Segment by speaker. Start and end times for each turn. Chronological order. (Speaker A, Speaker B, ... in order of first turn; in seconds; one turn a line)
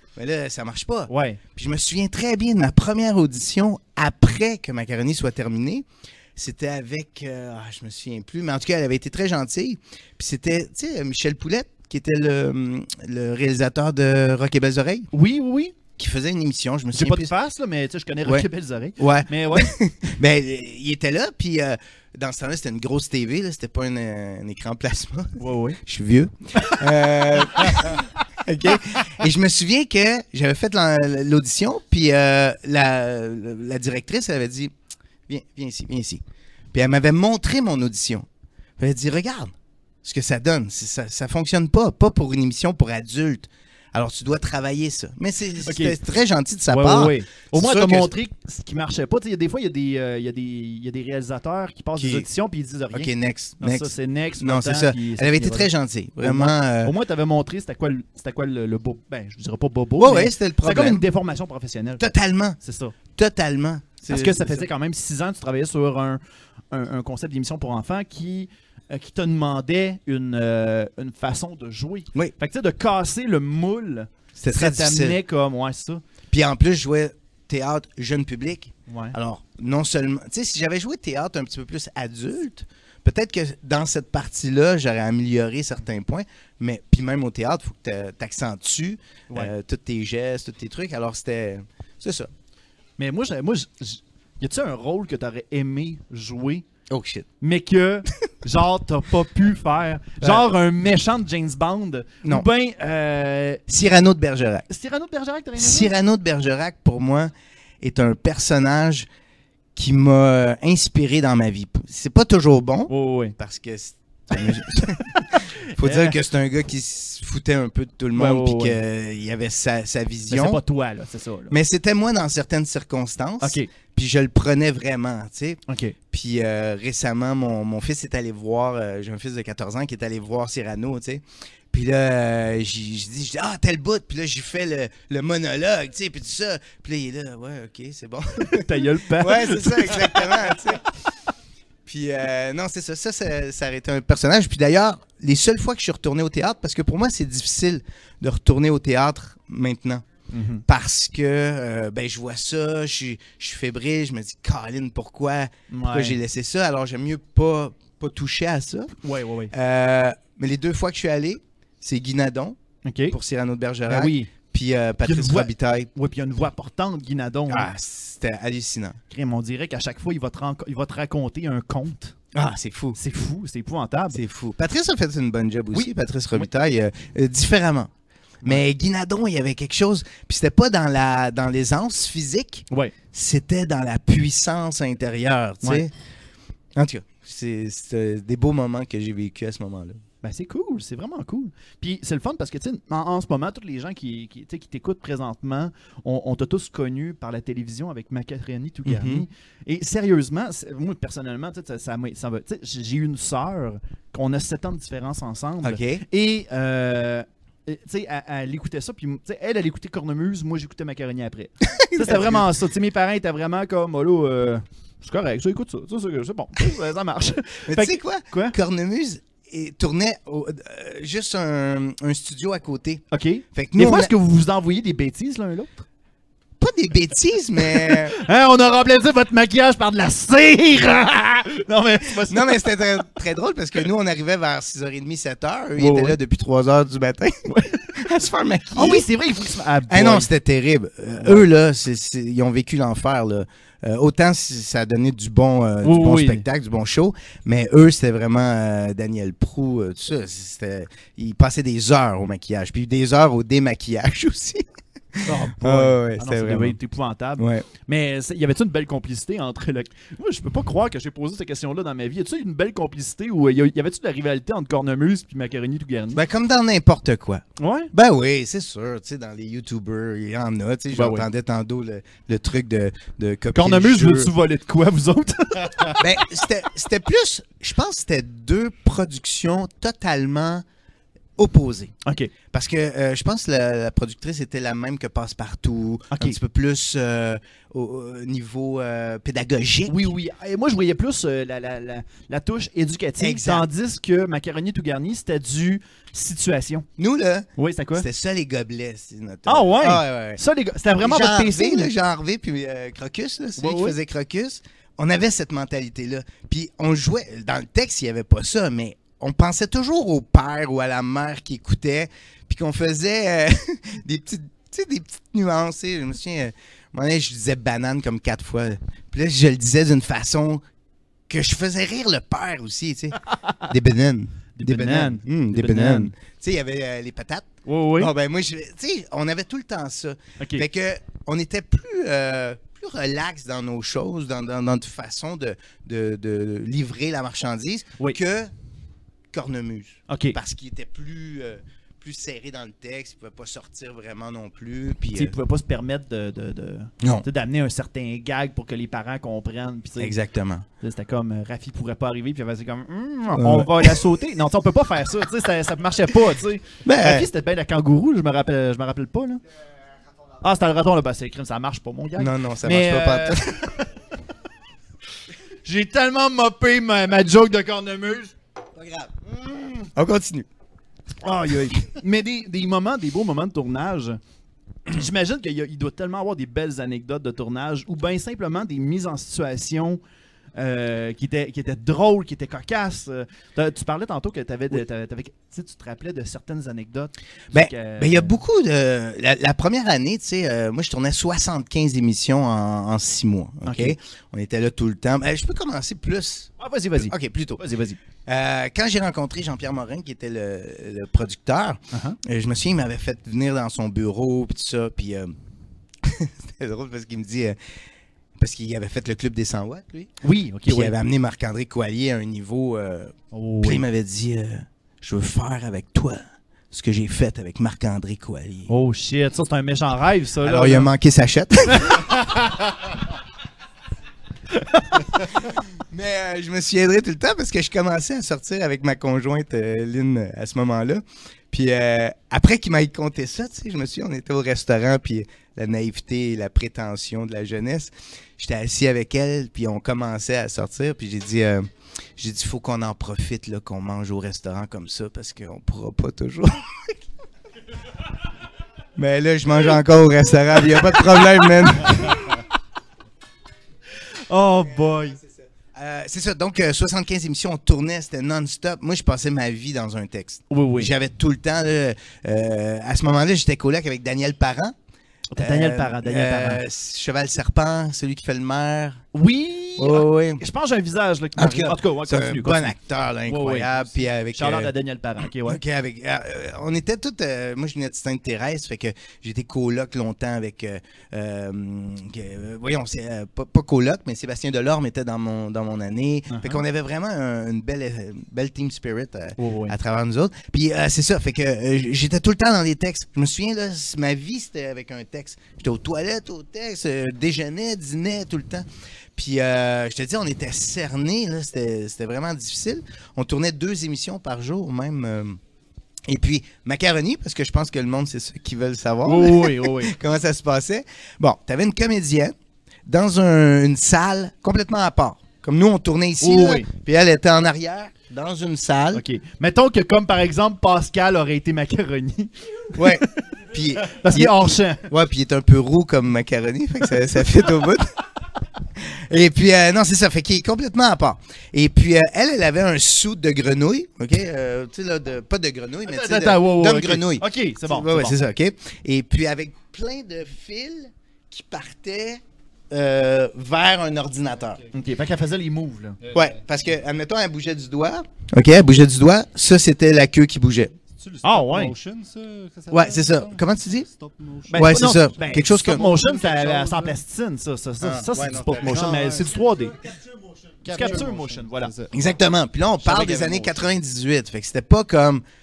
Speaker A: 0.2-15.1
Speaker B: 1.1-1.4
Speaker B: 15.1-15.8
Speaker A: 16.0-17.3
Speaker B: 16.9-19.7
Speaker A: 19.0-34.7
Speaker B: 25.4-25.8
Speaker B: 26.6-28.1
Speaker A: 35.3-36.2
Speaker A: 36.7-38.3
Speaker A: 38.8-39.5
Speaker A: 40.0-48.1
Speaker B: 45.6-46.0
Speaker B: 46.7-55.7
Speaker A: 52.0-52.3
Speaker A: 52.9-56.9
Speaker B: 56.2-62.1
Speaker A: 60.0-61.0
Speaker A: 62.0-62.6
Speaker B: 62.6-63.0
Speaker A: 63.1-64.7
Speaker B: 64.1-66.2
Speaker B: 66.7-76.0
Speaker A: 74.4-75.2
Speaker A: 76.3-92.3
Speaker B: 78.9-79.2
Speaker B: 93.0-96.7
Speaker A: 96.9-97.3
Speaker B: 97.4-103.6
Speaker A: 100.2-100.5
Speaker A: 103.7-104.7
Speaker B: 104.7-105.9
Speaker A: 105.6-109.1
Speaker A: 109.8-120.6
Speaker B: 112.9-113.4
Speaker B: 114.3-116.2
Speaker B: 118.2-118.8
Speaker B: 120.3-121.5
Speaker A: 121.5-138.7
Speaker B: 123.4-123.7
Speaker B: 125.7-126.0
Speaker B: 138.5-140.6
Speaker A: 139.2-140.9
Speaker A: 141.9-150.1
Speaker B: 150.3-150.7
Speaker A: 150.7-158.9
Speaker B: 155.7-156.2
Speaker B: 159.0-159.5
Speaker A: 159.5-162.6
Speaker B: 162.8-163.2
Speaker A: 163.1-165.9
Speaker B: 163.9-164.3
Speaker B: 165.0-167.7
Speaker A: 167.5-169.0
Speaker B: 169.1-172.2
Speaker A: 172.3-173.0
Speaker B: 172.9-174.2
Speaker A: 174.1-177.9
Speaker B: 175.7-176.5
Speaker A: 178.4-185.9
Speaker B: 182.7-182.9
Speaker A: 186.8-190.0
Speaker B: 190.2-218.6
Speaker A: 198.8-199.3
Speaker A: 205.6-206.0
Speaker A: 211.7-212.5
Speaker A: 217.7-224.1
Speaker B: 223.1-225.8
Speaker A: 226.6-228.2
Speaker B: 227.7-232.6
Speaker A: 232.3-237.3
Speaker B: 235.8-236.2
Speaker B: 237.5-237.9
Speaker A: 237.9-239.1
Speaker B: 238.7-240.3
Speaker A: 239.9-254.6
Speaker B: 241.2-241.5
Speaker B: 245.8-246.5
Speaker A: 255.2-256.8
Speaker B: 255.2-266.2
Speaker A: 257.4-257.7
Speaker A: 266.1-274.3
Speaker B: 267.6-267.9
Speaker B: 270.9-271.3
Speaker B: 273.5-276.1
Speaker A: 276.0-280.6
Speaker A: 281.4-281.9
Speaker B: 282.1-282.3
Speaker A: 282.5-290.1
Speaker B: 286.1-286.4
Speaker B: 289.9-296.9
Speaker A: 293.2-293.7
Speaker A: 297.0-300.4
Speaker B: 297.6-298.1
Speaker B: 299.5-301.9
Speaker A: 301.0-320.6
Speaker B: 303.6-304.0
Speaker A: 321.3-338.5
Speaker B: 323.3-323.7
Speaker B: 324.6-326.1
Speaker B: 327.7-328.1
Speaker B: 330.4-330.6
Speaker A: 339.3-345.3
Speaker B: 340.1-340.4
Speaker B: 345.1-350.1
Speaker A: 350.0-350.6
Speaker B: 350.8-359.4
Speaker A: 353.4-354.0
Speaker A: 356.9-357.3
Speaker B: 360.4-363.9
Speaker A: 362.2-363.6
Speaker B: 365.6-368.3
Speaker A: 368.8-370.5
Speaker B: 371.2-374.2
Speaker B: 374.9-380.0
Speaker B: 380.6-388.4
Speaker A: 387.5-397.6
Speaker B: 393.6-394.0
Speaker B: 396.6-398.0
Speaker A: 398.3-405.3
Speaker B: 401.9-402.2
Speaker A: 406.0-407.6
Speaker A: 408.4-410.1
Speaker B: 410.2-410.9
Speaker A: 410.7-418.7
Speaker B: 413.3-413.8
Speaker B: 418.7-420.9
Speaker A: 420.4-422.1
Speaker A: 425.9-446.9
Speaker A: 449.0-452.2
Speaker B: 454.3-455.2
Speaker A: 455.2-464.8
Speaker B: 460.5-460.9
Speaker B: 465.3-466.6
Speaker A: 465.4-469.0
Speaker B: 469.1-472.8
Speaker A: 469.8-470.4
Speaker A: 471.4-474.7
Speaker B: 473.3-475.6
Speaker A: 475.4-505.4
Speaker B: 486.3-486.6
Speaker B: 489.4-489.8
Speaker A: 506.1-512.3
Speaker B: 509.1-509.9
Speaker A: 512.9-519.0
Speaker B: 516.2-516.7
Speaker B: 518.9-522.9
Speaker A: 522.8-524.4
Speaker B: 523.9-524.9
Speaker A: 524.9-527.9
Speaker A: 528.8-544.6
Speaker B: 535.9-538.2
Speaker B: 544.7-546.0
Speaker A: 546.1-550.7
Speaker C: 551.0-557.0
Speaker B: 551.2-551.8
Speaker A: 552.7-553.9
Speaker B: 554.5-559.8
Speaker A: 554.5-555.9
Speaker A: 557.8-558.9
Speaker C: 558.6-559.4
Speaker C: 560.6-561.9
Speaker B: 560.7-561.7
Speaker A: 561.9-565.2
Speaker C: 562.8-563.5
Speaker B: 562.8-563.5